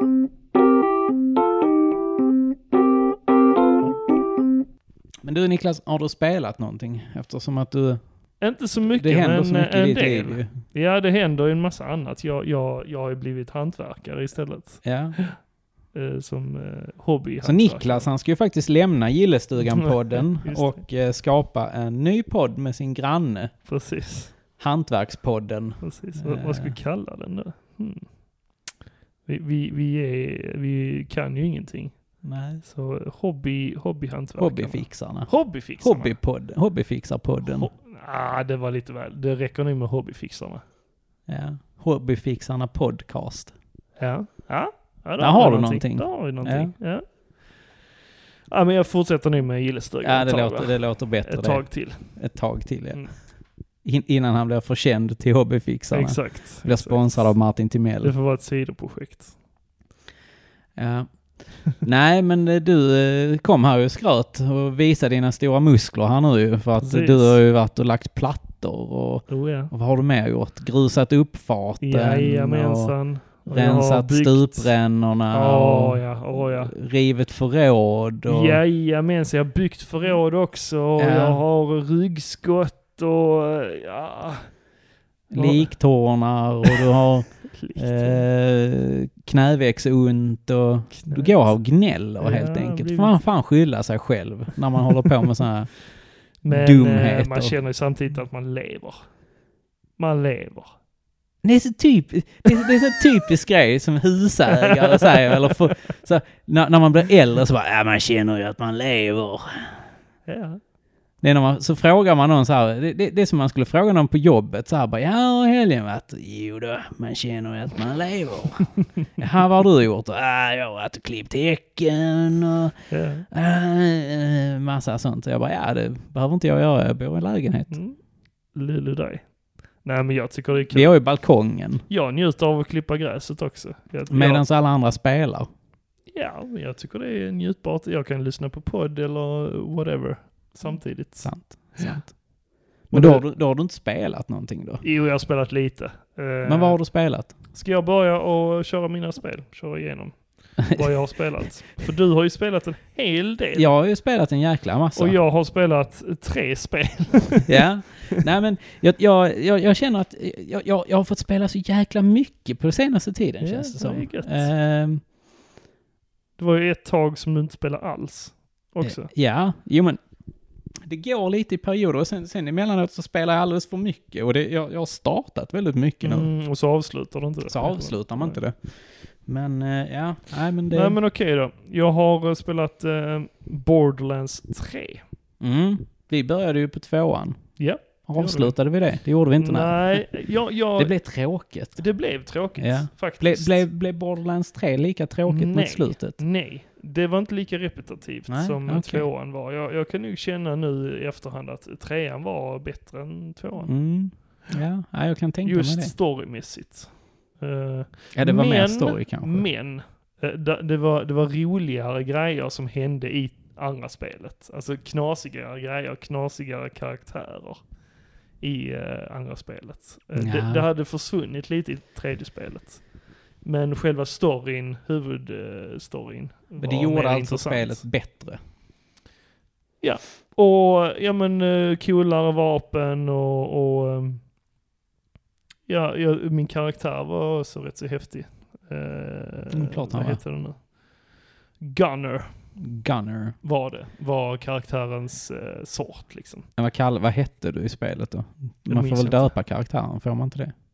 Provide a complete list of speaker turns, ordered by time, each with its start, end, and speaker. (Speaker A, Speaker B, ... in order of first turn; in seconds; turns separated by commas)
Speaker A: 5.2-8.3, Speaker B: 8.4-15.3, Speaker A: 8.9-10.5, Speaker A: 14.8-15.2, Speaker B: 15.9-18.1, Speaker A: 17.4-23.5, Speaker B: 20.1-20.8, Speaker B: 23.6-24.4, Speaker A: 24.6-26.8, Speaker B: 25.8-28.2, Speaker B: 29.2-36.2, Speaker A: 32.2-32.6, Speaker A: 34.4-37.7, Speaker B: 37.4-40.6, Speaker A: 41.3-43.5, Speaker B: 44.0-47.7, Speaker A: 45.2-46.7, Speaker B: 48.5-52.2, Speaker A: 50.0-53.3, Speaker A: 53.8-58.1, Speaker B: 55.9-57.3, Speaker B: 58.0-59.3, Speaker A: 60.8-78.6, Speaker B: 66.8-67.4, Speaker B: 69.3-69.7, Speaker B: 71.8-74.7, Speaker B: 75.3-76.7, Speaker B: 78.2-84.5, Speaker A: 81.0-81.4, Speaker A: 85.3-97.6, Speaker B: 85.3-85.8, Speaker B: 87.5-88.2, Speaker B: 90.9-91.6, Speaker B: 92.2-93.2, Speaker B: 96.4-99.1, Speaker B: 100.0-100.8, Speaker A: 101.4-109.8, Speaker B: 104.6-105.7, Speaker B: 110.3-110.6, Speaker A: 111.2-122.8, Speaker B: 122.9-123.3, Speaker A: 123.3-127.8, Speaker B: 127.7-128.0, Speaker B: 128.5-130.9, Speaker A: 130.7-131.8, Speaker B: 131.9-134.4, Speaker A: 134.1-135.5, Speaker B: 136.1-142.1, Speaker A: 141.2-142.2, Speaker B: 142.9-143.2, Speaker A: 142.9-144.8, Speaker B: 144.8-146.8, Speaker A: 146.4-147.3, Speaker B: 147.5-153.7, Speaker A: 153.5-155.2, Speaker B: 154.9-157.6, Speaker A: 157.4-165.0, Speaker B: 163.4-164.5, Speaker B: 166.4-169.1, Speaker A: 168.8-170.0, Speaker A: 170.8-176.3, Speaker B: 176.0-178.4, Speaker A: 177.5-181.0, Speaker B: 180.7-185.0, Speaker A: 185.4-190.2, Speaker B: 187.6-188.6, Speaker B: 189.4-191.0, Speaker A: 190.8-191.8, Speaker B: 191.7-193.6, Speaker A: 192.6-196.2, Speaker B: 195.2-203.7, Speaker A: 198.3-199.1, Speaker A: 203.7-205.9, Speaker B: 205.4-217.6, Speaker A: 208.1-209.4, Speaker B: 218.4-227.8, Speaker A: 220.2-220.7, Speaker A: 226.6-228.4, Speaker B: 229.8-234.3, Speaker B: 235.7-242.5, Speaker A: 239.5-240.2, Speaker A: 242.6-243.3, Speaker B: 243.4-246.5, Speaker A: 246.6-250.5, Speaker B: 248.7-249.3